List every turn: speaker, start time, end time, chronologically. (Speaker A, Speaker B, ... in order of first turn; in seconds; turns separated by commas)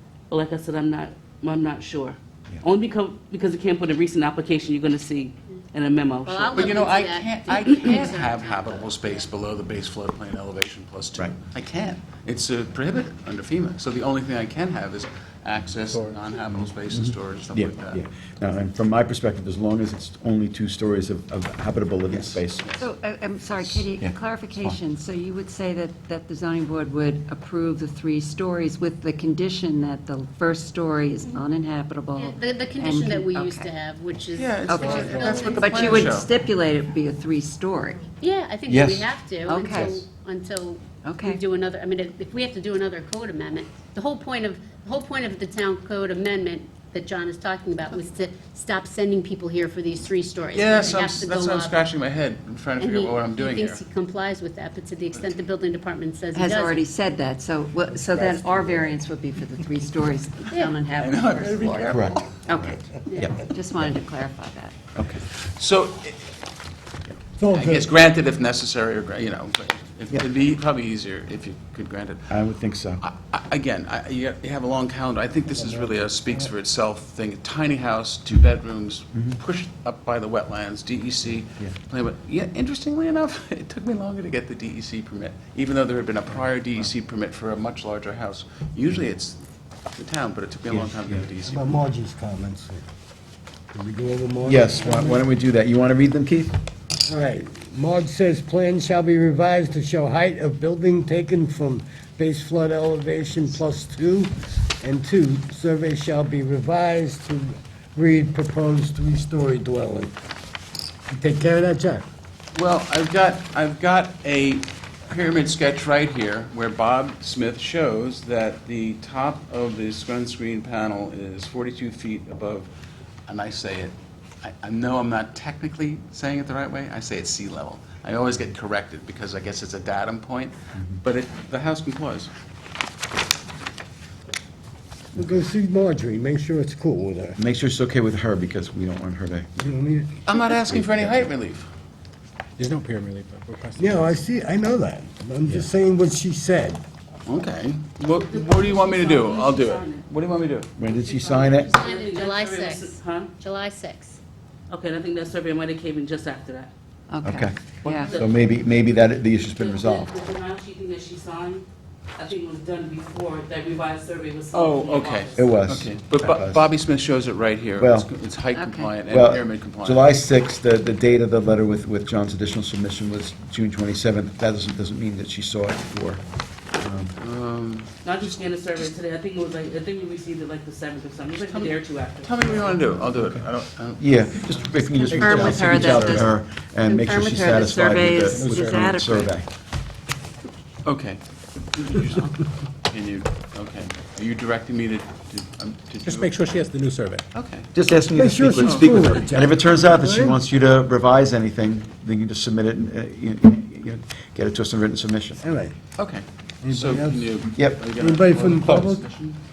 Speaker A: 0.3-6.8, Speaker B: 6.2-9.3, Speaker C: 6.5-18.0, Speaker D: 16.9-22.8, Speaker C: 22.1-22.8, Speaker E: 22.8-33.7, Speaker D: 23.6-24.8, Speaker B: 32.2-36.2, Speaker C: 34.4-36.3, Speaker E: 34.7-38.1, Speaker F: 35.1-35.5, Speaker B: 38.2-51.9, Speaker D: 38.7-39.1, Speaker E: 39.5-40.0, Speaker E: 41.0-41.4, Speaker C: 50.5-53.8, Speaker B: 52.8-56.9, Speaker E: 56.3-62.8, Speaker C: 61.0-62.4, Speaker B: 63.1-63.4, Speaker E: 63.5-64.8, Speaker D: 65.0-65.2, Speaker C: 65.3-66.4, Speaker G: 67.4-67.9, Speaker C: 67.5-72.4, Speaker D: 72.3-73.0, Speaker C: 73.0-89.4, Speaker C: 89.9-91.8, Speaker D: 90.7-91.3, Speaker G: 91.4-92.8, Speaker G: 93.7-95.2, Speaker D: 94.5-96.5, Speaker G: 97.1-110.1, Speaker G: 111.1-112.0, Speaker C: 112.5-122.7, Speaker C: 123.3-132.3, Speaker G: 135.2-137.4, Speaker D: 137.4-139.6, Speaker G: 139.6-140.2, Speaker C: 140.2-141.7, Speaker D: 140.7-141.3, Speaker F: 142.6-144.2, Speaker G: 143.8-146.8, Speaker C: 147.3-150.8, Speaker A: 148.1-150.1, Speaker D: 150.8-151.7, Speaker A: 150.9-153.3, Speaker B: 151.6-154.2, Speaker A: 154.7-156.7, Speaker E: 157.1-158.1, Speaker D: 157.2-157.6, Speaker C: 157.8-158.1, Speaker A: 158.0-158.3, Speaker D: 158.1-160.1, Speaker A: 159.5-161.7, Speaker A: 162.2-165.6, Speaker C: 164.5-170.1, Speaker D: 165.3-166.6, Speaker D: 167.8-168.1, Speaker E: 168.5-168.9, Speaker D: 169.1-177.2, Speaker C: 177.2-177.9, Speaker A: 178.0-182.9, Speaker C: 181.3-184.7, Speaker D: 184.0-189.5, Speaker E: 185.0-189.4, Speaker C: 185.3-186.0, Speaker F: 188.3-188.8, Speaker C: 190.8-191.2, Speaker C: 191.7-196.3, Speaker F: 196.0-197.3, Speaker C: 197.3-197.7, Speaker D: 197.7-205.5, Speaker G: 198.1-200.4, Speaker C: 198.6-199.2, Speaker G: 205.4-205.8, Speaker C: 206.0-209.4, Speaker G: 206.6-207.4, Speaker D: 207.6-207.8, Speaker G: 207.9-209.1